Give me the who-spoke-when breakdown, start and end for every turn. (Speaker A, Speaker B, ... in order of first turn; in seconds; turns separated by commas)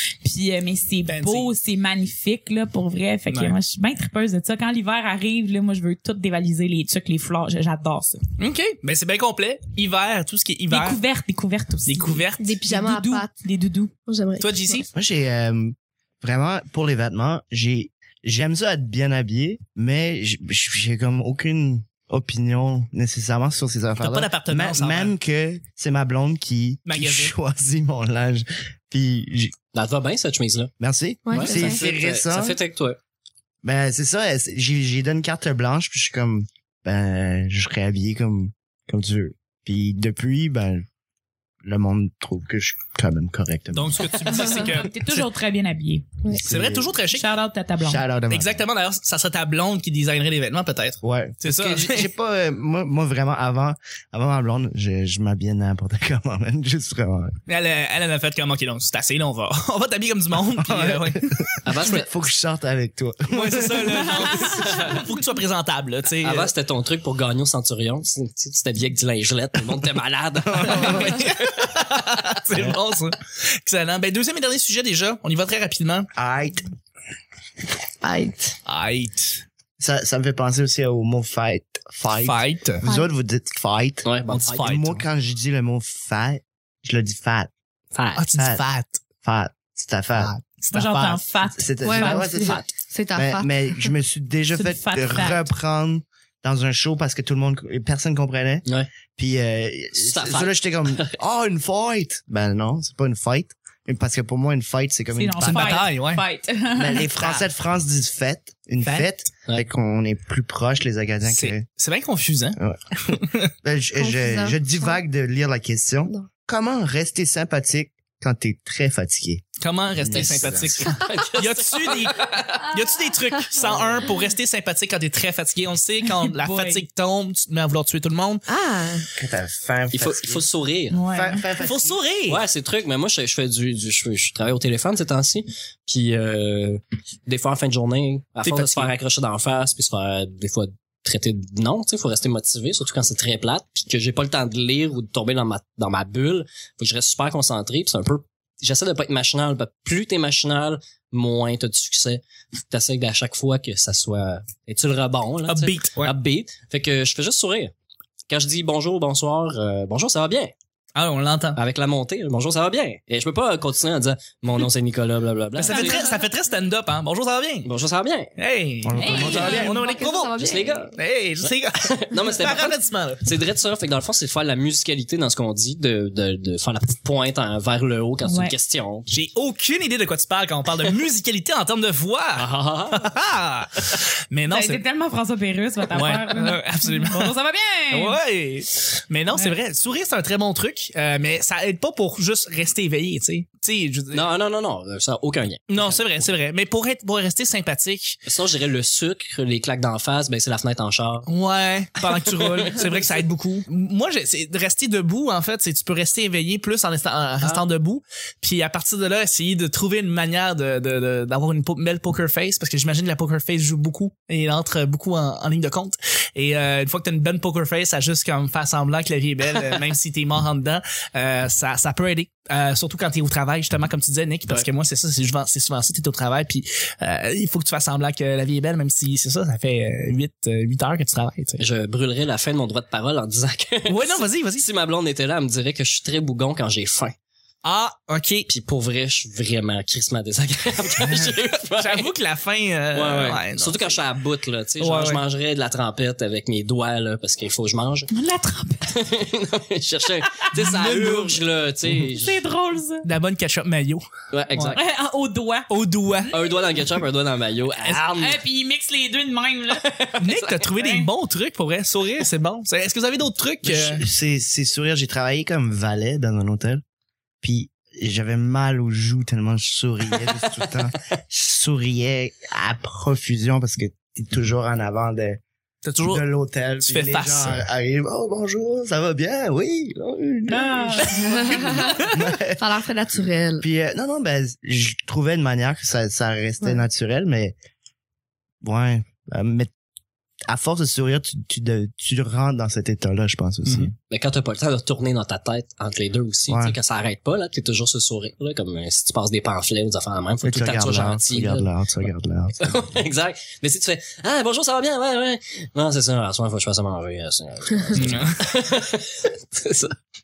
Speaker A: 0.2-8.2, Speaker B: 1.1-1.5, Speaker B: 3.3-3.5, Speaker B: 8.4-11.0, Speaker A: 10.7-13.9, Speaker B: 11.8-12.5, Speaker C: 12.4-13.3, Speaker C: 14.1-14.8, Speaker B: 14.4-14.9, Speaker D: 14.9-29.5, Speaker B: 24.0-25.1, Speaker B: 26.8-27.3, Speaker E: 29.7-30.7, Speaker D: 30.8-32.6, Speaker C: 31.2-31.8, Speaker E: 31.3-33.0, Speaker D: 33.6-40.8, Speaker D: 41.6-44.2, Speaker B: 43.7-45.3, Speaker A: 44.4-46.1, Speaker D: 46.3-46.9, Speaker B: 46.4-47.2, Speaker A: 47.1-48.0, Speaker D: 47.8-48.6, Speaker B: 48.3-52.1, Speaker D: 51.0-57.3, Speaker B: 57.5-61.4, Speaker D: 60.5-64.3, Speaker E: 61.6-62.1, Speaker B: 63.3-66.5, Speaker A: 64.3-64.8, Speaker E: 66.2-71.3, Speaker D: 70.5-71.2, Speaker B: 70.6-76.1, Speaker D: 76.1-76.7, Speaker C: 78.0-78.6, Speaker B: 78.7-79.4, Speaker D: 79.8-87.5, Speaker B: 82.2-82.8, Speaker C: 82.8-83.1, Speaker E: 84.0-84.8, Speaker B: 84.3-85.0, Speaker E: 87.9-88.2, Speaker B: 88.2-89.0, Speaker D: 88.4-88.6, Speaker D: 89.2-92.6, Speaker B: 90.2-91.1, Speaker A: 90.7-92.5, Speaker C: 91.8-93.9, Speaker D: 93.1-105.8, Speaker A: 94.5-95.5, Speaker E: 100.0-101.2, Speaker A: 105.1-107.1, Speaker B: 105.4-106.2, Speaker D: 106.8-111.6, Speaker B: 107.1-107.5, Speaker B: 108.8-109.1, Speaker B: 111.2-112.6, Speaker D: 112.6-119.5, Speaker B: 113.1-113.5, Speaker C: 114.0-115.0, Speaker B: 119.6-128.4, Speaker D: 120.0-120.8, Speaker E: 120.1-122.7, Speaker A: 126.2-126.8, Speaker C: 128.5-129.1, Speaker D: 129.2-130.4, Speaker E: 129.9-131.0, Speaker A: 130.9-131.4, Speaker D: 131.1-132.0, Speaker B: 131.6-132.4, Speaker E: 132.3-157.7, Speaker B: 138.4-138.9, Speaker B: 155.5-156.1, Speaker E: 158.3-160.5, Speaker B: 160.9-161.6, Speaker E: 161.6-166.1, Speaker B: 165.6-167.7, Speaker A: 165.7-166.1, Speaker E: 167.6-168.3, Speaker B: 168.4-170.4, Speaker D: 168.8-169.8, Speaker A: 169.0-169.7, Speaker C: 169.1-170.9, Speaker E: 170.4-179.1, Speaker B: 170.9-173.3, Speaker A: 178.2-178.5, Speaker B: 179.1-184.8, Speaker E: 182.3-183.1, Speaker A: 184.5-188.2, Speaker B: 185.9-187.3, Speaker B: 187.9-194.2, Speaker E: 194.1-196.3, Speaker B: 195.7-198.2, Speaker E: 198.2-201.3, Speaker B: 201.2-231.6, Speaker E: 202.0-203.0, Speaker E: 231.6-237.2, Speaker B: 233.8-234.7, Speaker B: 237.6-238.5, Speaker E: 238.5-242.1, Speaker B: 241.2-243.9, Speaker E: 242.9-248.1, Speaker B: 244.8-245.2, Speaker A: 248.1-249.0, Speaker E: 248.9-252.4, Speaker B: 250.5-251.4, Speaker A: 252.1-253.1, Speaker B: 253.0-254.8, Speaker E: 254.3-254.8, Speaker A: 254.7-256.5, Speaker B: 255.7-256.3, Speaker E: 256.3-258.4, Speaker A: 258.1-259.9, Speaker E: 259.8-260.5, Speaker B: 260.2-264.0, Speaker A: 260.7-261.1, Speaker D: 263.6-266.8, Speaker D: 267.4-275.4, Speaker B: 275.8-276.2, Speaker D: 276.0-282.6, Speaker B: 276.8-277.6, Speaker A: 280.5-281.5, Speaker B: 281.0-282.1, Speaker C: 281.1-282.1, Speaker C: 282.6-283.6, Speaker D: 283.6-287.5, Speaker D: 288.6-289.7, Speaker D: 290.5-293.9, Speaker B: 293.6-293.9, Speaker E: 294.1-301.7, Speaker D: 296.5-296.8, Speaker D: 300.4-302.9, Speaker E: 302.6-309.9, Speaker B: 307.9-308.4